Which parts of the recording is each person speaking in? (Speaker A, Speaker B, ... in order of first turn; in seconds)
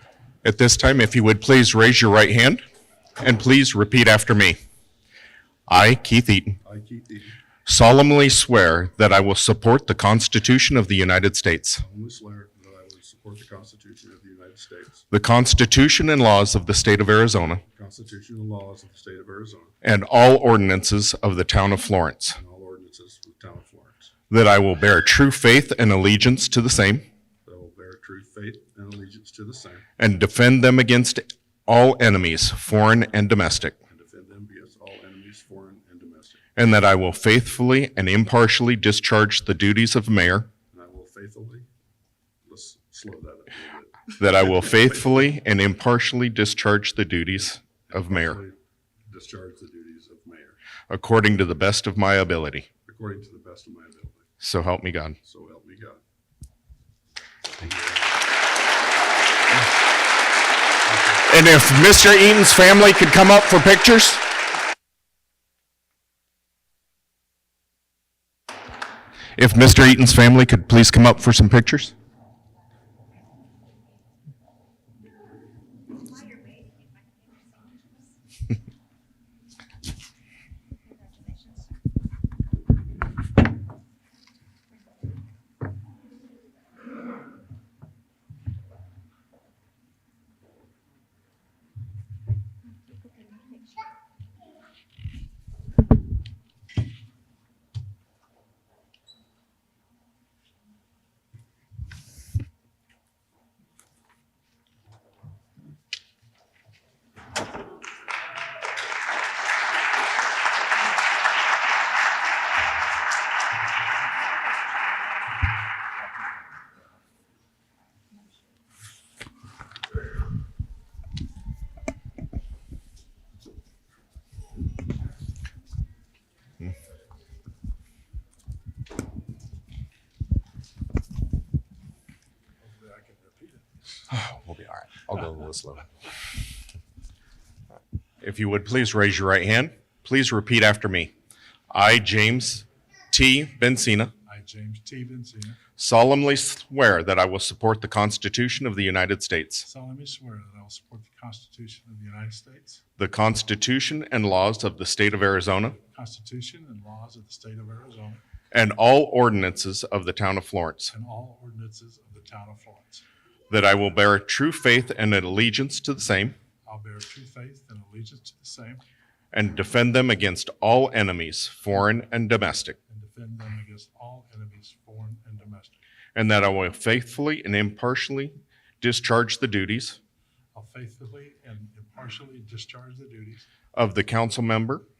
Speaker A: 0.4-2.6, 3.2-4.6, 5.7-6.6, 7.7-11.8, 15.1-17.6, 19.8-22.4, 24.3-27.1, 30.0-33.8, 36.5-40.5, 44.1-48.4, 50.9-52.7, 54.4-55.2, 61.2-64.2, 69.3-71.9, 134.1-135.9, 138.2-141.1, 141.7-144.1, 145.8-149.7, 153.0-155.8, 158.5-160.9, 163.5-166.4, 169.3-172.8, 176.1-180.0, 183.7-184.8
Speaker B: 6.6-7.3, 11.8-15.0, 17.7-19.7, 22.3-24.1, 27.4-29.9, 33.9-36.4, 40.7-41.7, 42.5-44.9, 47.9-50.6, 52.9-54.2, 55.2-56.0, 57.5-58.2
Speaker C: 76.0-78.1, 80.9-81.7, 93.2-93.7, 132.6-133.8, 144.2-145.6, 149.6-152.8, 155.9-158.2, 160.9-163.0, 166.6-168.8, 172.9-175.8, 180.5-183.4